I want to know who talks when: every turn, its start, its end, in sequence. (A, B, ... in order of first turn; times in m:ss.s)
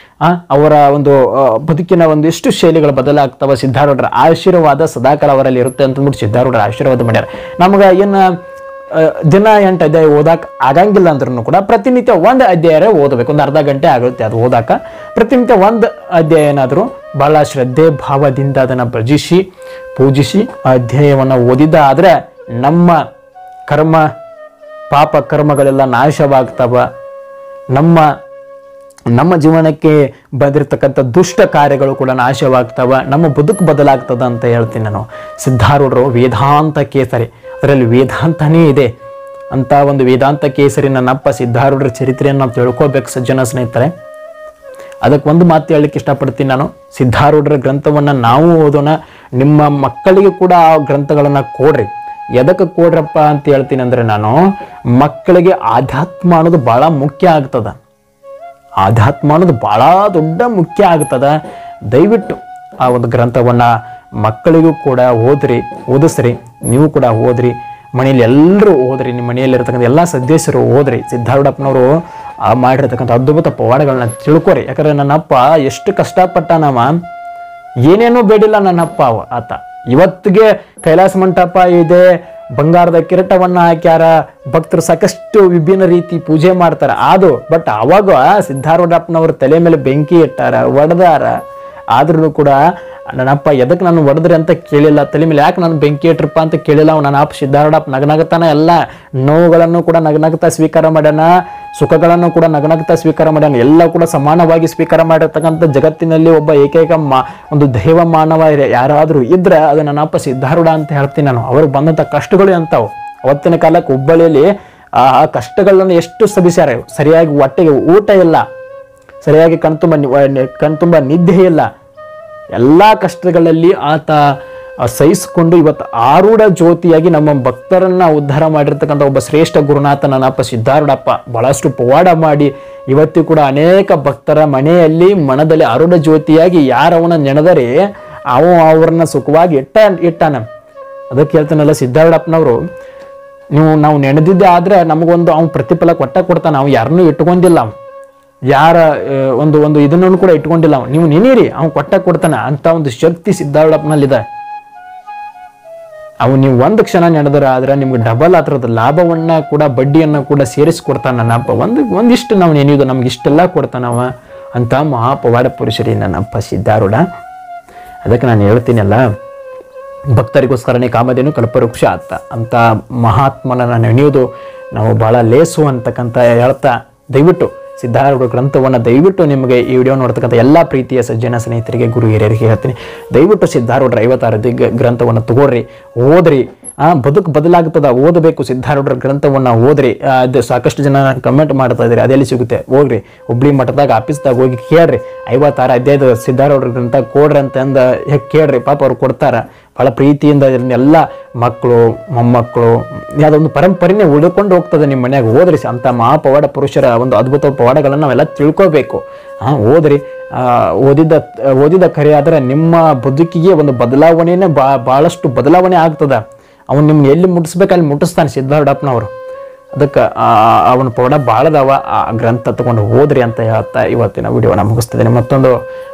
0:00.2-0:08.3 A
0:08.9-0:23.0 A
0:23.7-0:24.0 A
0:24.9-0:26.8 A
0:27.7-0:28.1 A
0:29.1-0:38.9 A
0:39.5-0:43.9 A
0:45.0-0:54.4 A
0:54.9-0:57.8 A
0:58.8-1:01.3 A
1:01.9-1:03.7 A
1:04.2-1:11.9 A
1:12.4-1:16.9 A
1:17.9-1:22.0 A
1:22.6-1:31.3 A
1:31.9-1:32.6 A
1:33.1-1:54.5 A
1:55.0-1:58.4 A
1:59.2-2:01.6 A
2:02.5-2:04.2 A
2:04.8-2:17.8 A
2:18.3-2:20.4 A
2:21.1-2:22.6 A
2:23.5-2:27.7 A
2:28.5-2:34.2 A
2:36.2-2:47.0 A
2:48.0-2:49.0 A
2:50.1-3:39.1 A
3:39.7-3:45.5 A